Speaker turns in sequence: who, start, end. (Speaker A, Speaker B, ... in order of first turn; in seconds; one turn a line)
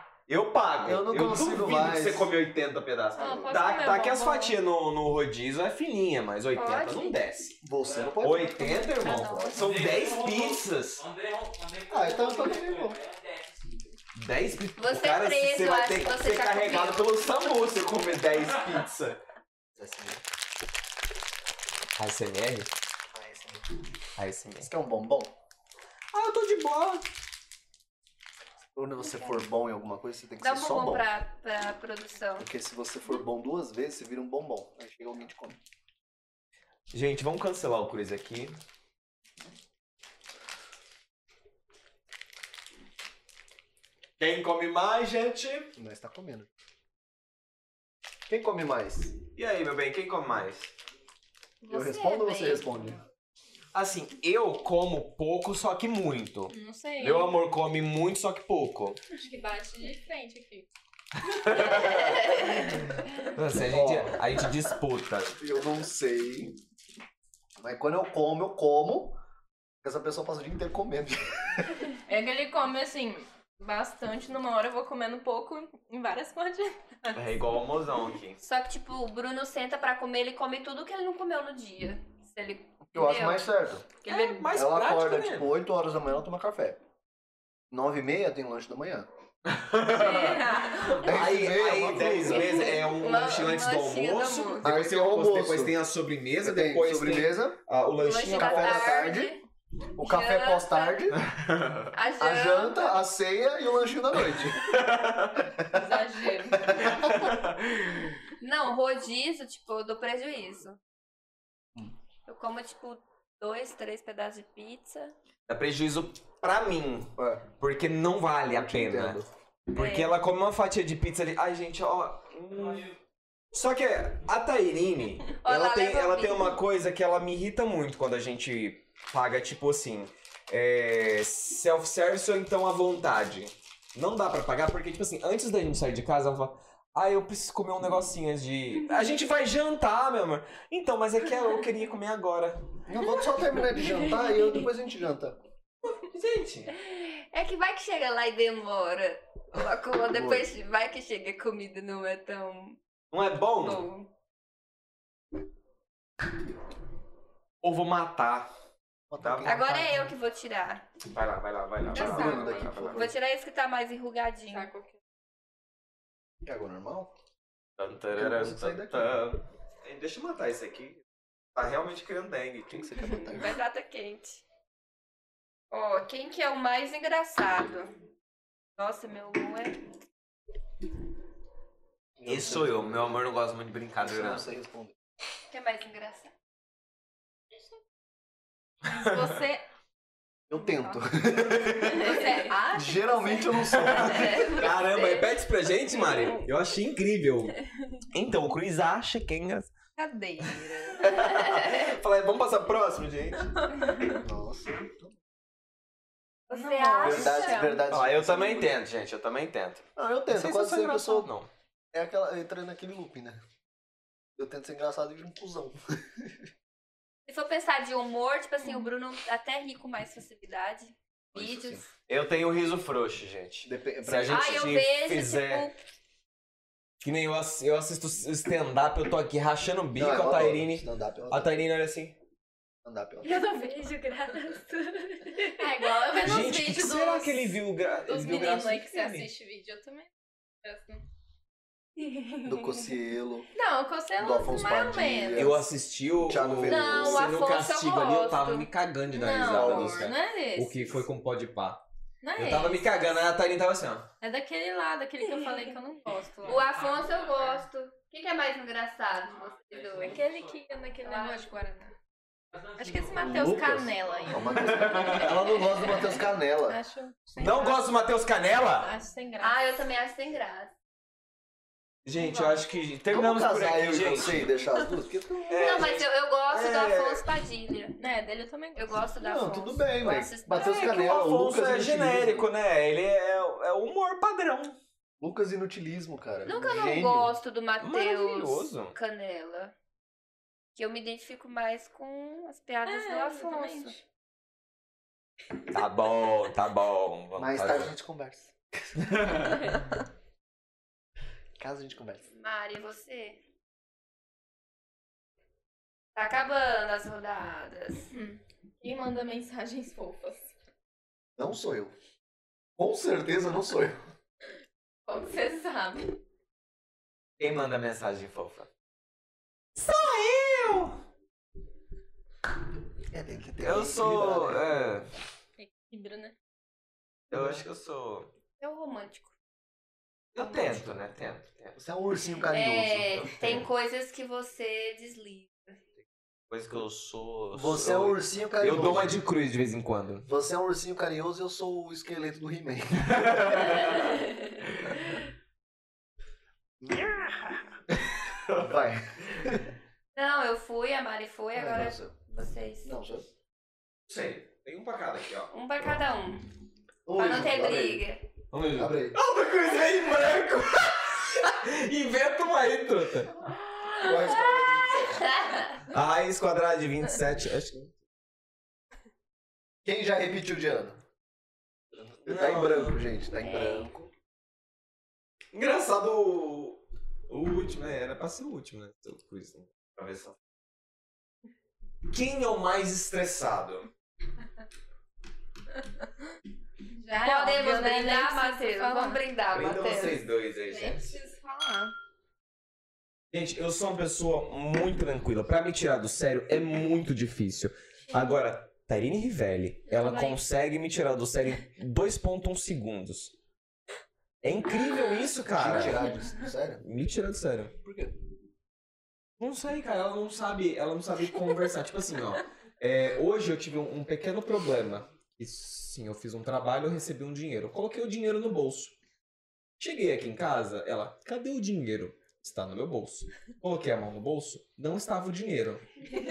Speaker A: 0.3-7.6
Speaker B: 0.8-2.3
Speaker C: 3.2-4.6
Speaker D: 3.2-3.7
Speaker D: 6.5-7.2
Speaker B: 7.6-8.9
Speaker E: 7.8-8.2
Speaker A: 8.2-11.0
Speaker D: 8.6-9.6
Speaker E: 9.5-13.9
Speaker B: 11.9-13.0
Speaker A: 14.2-19.2
Speaker D: 14.8-17.1
Speaker B: 19.8-20.2
Speaker A: 22.0-22.7
Speaker B: 23.1-23.7
Speaker A: 24.2-24.7
Speaker B: 24.6-25.3
Speaker A: 26.1-27.1
Speaker B: 28.8-31.1
Speaker D: 29.0-29.4
Speaker D: 30.4-32.5
Speaker B: 32.4-35.6
Speaker A: 36.9-38.6
Speaker A: 44.2-45.7
Speaker B: 45.8-46.5
Speaker B: 48.3-49.2
Speaker A: 49.4-50.7
Speaker D: 51.6-52.6
Speaker B: 51.7-53.0
Speaker A: 53.7-59.0
Speaker C: 56.5-57.3
Speaker C: 59.1-60.7
Speaker A: 61.3-62.2
Speaker C: 61.6-62.4
Speaker A: 63.3-65.4
Speaker B: 63.6-64.2
Speaker B: 65.4-66.5
Speaker B: 67.6-69.2
Speaker B: 69.8-71.8
Speaker C: 72.1-77.2
Speaker A: 77.1-78.4
Speaker D: 78.4-83.5
Speaker B: 82.9-83.9
Speaker D: 84.0-84.5
Speaker A: 84.1-85.5
Speaker B: 84.5-86.8
Speaker B: 87.7-89.1
Speaker A: 89.5-98.9
Speaker D: 89.9-90.9
Speaker C: 90.1-90.8
Speaker B: 91.0-92.6
Speaker D: 92.2-94.6
Speaker B: 94.6-95.8
Speaker B: 96.4-97.6
Speaker D: 98.0-99.4
Speaker B: 98.3-99.3
Speaker B: 100.0-101.4
Speaker D: 100.0-101.0
Speaker A: 101.3-101.9
Speaker D: 101.9-103.0
Speaker B: 102.2-104.8
Speaker A: 104.3-105.5
Speaker B: 105.5-105.9
Speaker C: 105.7-106.8
Speaker B: 106.5-107.2
Speaker A: 106.7-108.2
Speaker D: 108.4-110.8
Speaker D: 112.3-115.1
Speaker A: 115.5-122.9
Speaker B: 117.2-117.5
Speaker B: 118.5-119.3
Speaker D: 119.8-120.1
Speaker E: 122.5-123.0
Speaker A: 123.5-142.7
Speaker D: 125.4-126.6
Speaker B: 142.9-145.4
Speaker A: 145.9-146.7
Speaker D: 146.7-152.8
Speaker B: 150.1-150.5
Speaker A: 153.1-153.8
Speaker D: 153.6-154.1
Speaker A: 157.6-158.5
Speaker B: 159.1-160.1
Speaker A: 159.2-159.8
Speaker D: 159.4-160.9
Speaker A: 161.1-163.1
Speaker B: 161.9-163.1
Speaker D: 161.9-164.7
Speaker C: 162.0-162.6
Speaker C: 164.5-165.0
Speaker B: 166.4-167.1
Speaker A: 167.8-171.0
Speaker B: 168.1-169.2
Speaker A: 171.6-172.9
Speaker B: 172.7-173.6
Speaker D: 173.0-174.4
Speaker D: 175.7-177.9
Speaker D: 178.8-179.8
Speaker B: 182.2-183.2
Speaker A: 182.3-184.5
Speaker B: 184.0-185.0
Speaker D: 185.5-186.3
Speaker C: 188.8-189.6
Speaker A: 188.9-189.4
Speaker B: 190.5-194.6
Speaker C: 190.6-191.1
Speaker C: 191.9-194.6
Speaker D: 191.9-192.6
Speaker A: 193.8-197.6
Speaker D: 194.0-196.5
Speaker A: 198.1-199.7
Speaker D: 200.0-201.9
Speaker A: 200.4-203.7
Speaker B: 204.2-205.2
Speaker D: 206.5-207.7
Speaker C: 206.5-207.8
Speaker B: 207.0-208.7
Speaker A: 207.0-207.3
Speaker A: 207.9-211.5
Speaker B: 210.0-211.3
Speaker B: 211.9-213.4
Speaker B: 214.4-216.4
Speaker D: 217.3-221.9
Speaker C: 218.6-218.9
Speaker B: 221.3-221.8
Speaker A: 222.0-225.7
Speaker B: 223.6-224.6
Speaker D: 224.2-225.8
Speaker A: 227.0-232.2
Speaker B: 230.0-231.7
Speaker B: 232.8-233.4
Speaker C: 233.2-240.1
Speaker D: 235.4-236.2
Speaker A: 236.2-239.3
Speaker C: 240.6-241.0
Speaker C: 242.0-242.8
Speaker B: 242.4-243.5
Speaker C: 243.5-245.6
Speaker B: 244.2-245.7
Speaker A: 245.3-251.8
Speaker B: 246.3-247.3
Speaker D: 246.7-248.7
Speaker C: 249.1-251.0
Speaker B: 249.4-250.1
Speaker C: 252.2-253.2
Speaker A: 252.4-254.1
Speaker C: 254.2-256.7
Speaker D: 255.2-255.7
Speaker E: 256.4-257.7
Speaker D: 256.4-260.2
Speaker E: 259.3-260.7
Speaker C: 260.0-261.9
Speaker D: 261.0-261.5
Speaker E: 262.5-265.2
Speaker C: 262.8-267.8
Speaker B: 263.1-266.8
Speaker A: 264.6-265.4
Speaker A: 267.4-268.9
Speaker C: 268.8-269.7
Speaker D: 269.4-270.7
Speaker A: 272.1-274.5
Speaker C: 272.2-272.7
Speaker B: 273.1-275.8
Speaker A: 275.5-277.3
Speaker D: 275.5-278.0
Speaker C: 278.0-279.0
Speaker D: 278.8-281.0
Speaker B: 279.2-282.5
Speaker A: 280.5-284.8
Speaker B: 285.2-287.3
Speaker D: 286.5-289.7
Speaker A: 287.8-288.9
Speaker D: 290.8-294.0
Speaker C: 292.9-294.0
Speaker A: 295.7-297.9
Speaker B: 297.4-298.5
Speaker A: 299.0-299.7
Speaker B: 301.6-302.2
Speaker D: 302.3-303.4
Speaker D: 306.1-308.1
Speaker C: 308.1-310.5
Speaker B: 311.4-311.9
Speaker B: 312.8-314.0
Speaker C: 315.1-316.1
Speaker A: 317.4-318.7
Speaker A: 319.8-321.0
Speaker B: 323.1-325.0
Speaker A: 323.6-325.1
Speaker C: 325.6-326.4
Speaker A: 327.3-328.3
Speaker B: 327.3-327.6
Speaker D: 328.6-329.3
Speaker A: 330.3-331.8
Speaker B: 331.8-333.6
Speaker D: 332.5-335.7
Speaker A: 333.4-333.7
Speaker A: 336.5-340.3
Speaker B: 337.5-339.2
Speaker B: 340.3-343.9
Speaker A: 343.1-344.2
Speaker D: 344.2-344.5
Speaker B: 346.8-347.6
Speaker A: 348.0-348.7
Speaker B: 348.5-349.7
Speaker D: 350.1-352.9
Speaker B: 351.6-353.3
Speaker A: 354.1-355.5
Speaker D: 355.5-356.5
Speaker B: 357.1-358.1
Speaker D: 357.2-358.2
Speaker A: 358.5-363.4
Speaker B: 358.7-359.1
Speaker B: 363.9-365.4
Speaker D: 365.2-365.8
Speaker A: 365.9-367.9
Speaker B: 369.8-371.0
Speaker B: 372.0-374.1
Speaker A: 372.2-373.0
Speaker D: 373.4-373.9
Speaker A: 375.5-380.4
Speaker A: 382.1-383.9
Speaker C: 386.9-389.2
Speaker D: 387.2-390.2
Speaker A: 389.5-391.2
Speaker C: 390.7-391.9
Speaker A: 393.3-403.3
Speaker C: 399.9-400.4
Speaker A: 404.4-406.1
Speaker B: 405.5-406.8
Speaker A: 406.8-407.8
Speaker B: 407.8-408.1
Speaker A: 409.4-418.9
Speaker A: 419.8-425.8